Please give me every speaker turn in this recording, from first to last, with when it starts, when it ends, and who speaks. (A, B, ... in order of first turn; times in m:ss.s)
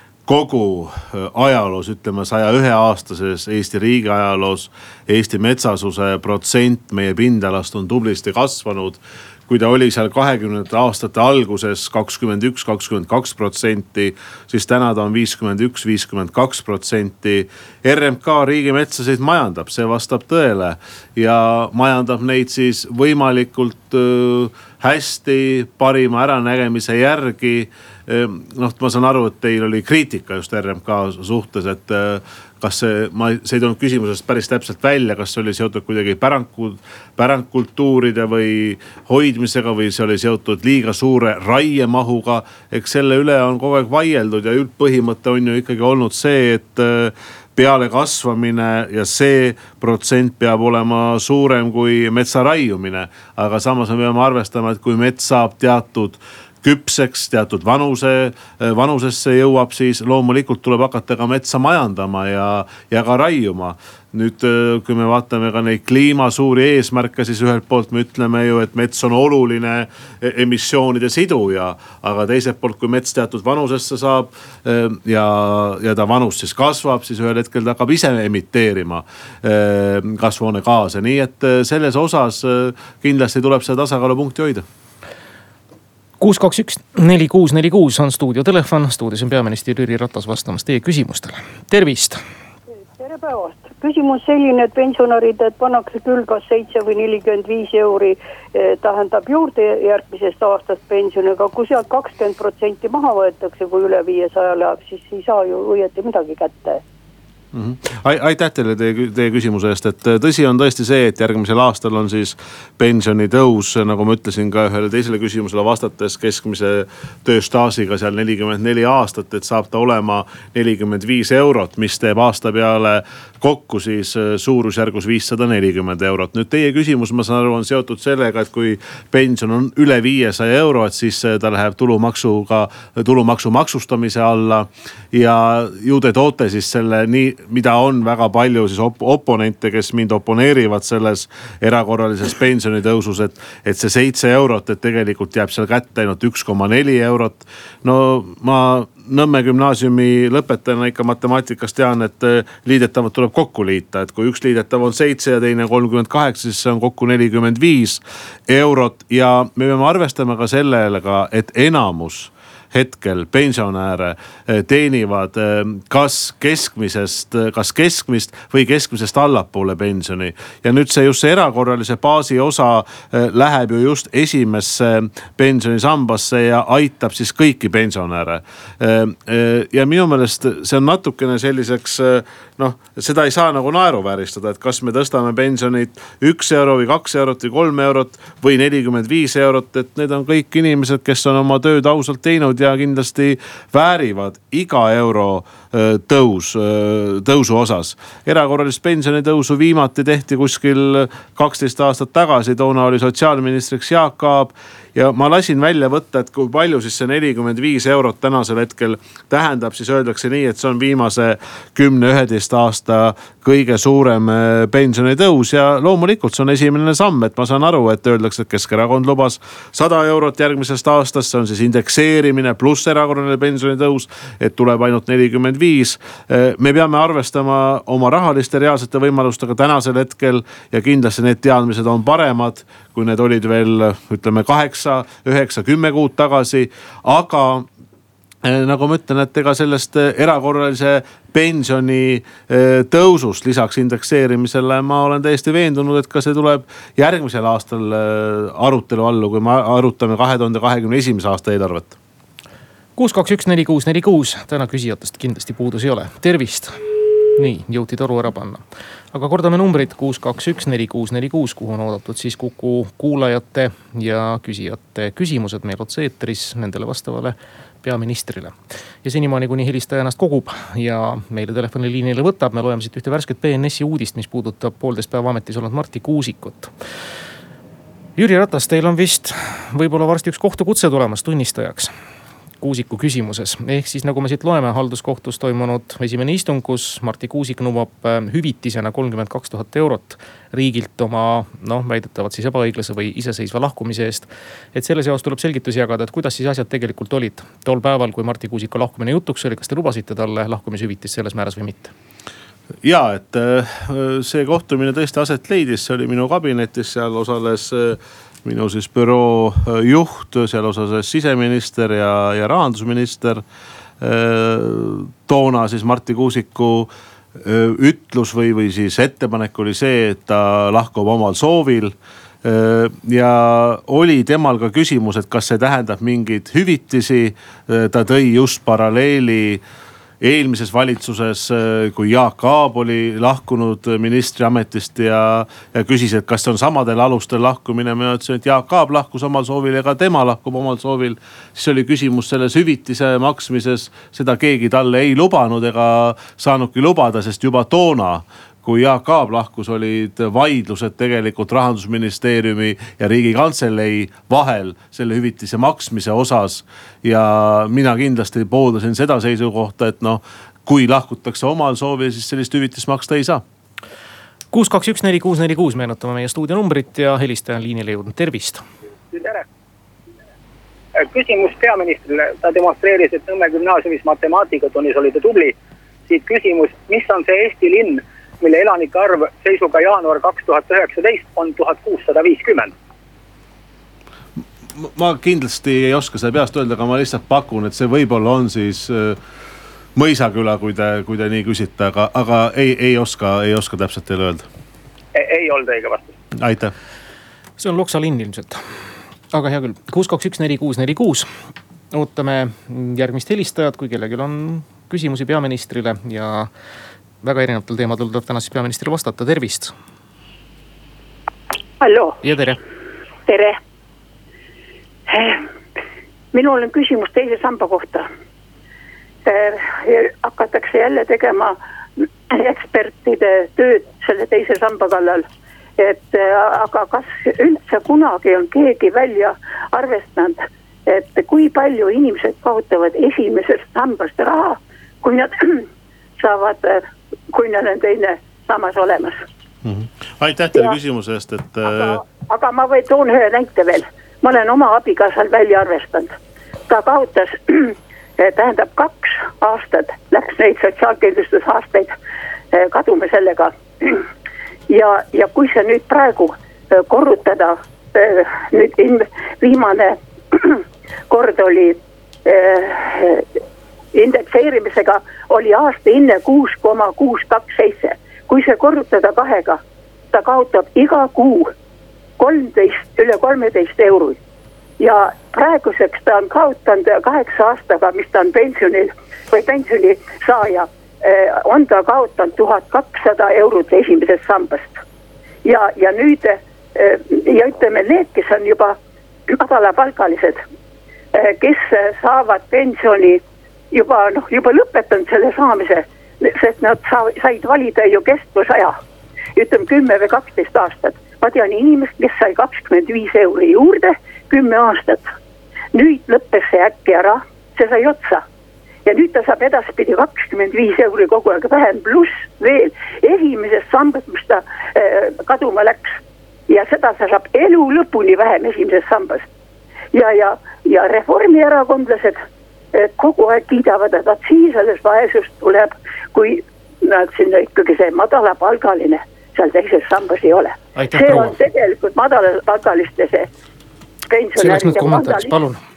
0:00.3-1:24.6 A
1:26.2-1:32.2 B
1:32.9-1:46.8 C
1:47.5-3:57.7 A
3:58.4-4:12.0 A
4:13.0-4:16.8 B
4:17.4-4:36.7 B
4:38.2-4:41.9 B
4:42.6-5:01.9 B
5:02.8-5:13.4 A
5:14.0-5:29.6 A
5:30.2-6:03.4 A
6:04.5-6:08.6 B
6:09.1-6:09.4 D
6:11.0-6:15.6 D
6:16.1-6:22.7 D
6:24.8-6:29.2 A
6:30.0-6:34.5 A
6:35.2-6:36.1 D
6:36.4-6:36.7 A
6:37.6-6:38.6 B
6:39.3-6:41.3 B
6:41.9-6:46.5 B
6:47.2-6:49.7 B
6:51.8-6:52.2 E
6:52.2-6:52.6 B
6:53.3-6:53.6 E
6:55.1-6:55.5 E
6:56.3-6:58.1 E
6:59.2-7:05.2 E
7:05.8-7:15.7 E
7:16.2-7:19.2 E
7:19.6-7:22.0 A
7:21.7-7:26.1 E
7:26.7-7:32.0 E
7:32.5-7:34.1 E
7:34.7-7:43.4 E
7:43.9-7:49.6 E
7:50.1-7:51.5 E
7:52.2-7:54.2 E
7:54.8-8:04.8 E
8:05.4-8:08.8 E
8:09.3-8:10.4 E
8:11.1-8:13.2 E
8:13.7-8:18.8 E
8:19.4-8:25.1 E
8:25.7-8:28.2 E
8:28.9-8:36.0 E
8:36.5-8:39.3 E
8:39.9-8:42.2 E
8:42.7-8:53.3 E
8:50.8-8:51.4 B
8:54.1-8:55.4 E
8:54.4-8:55.6 B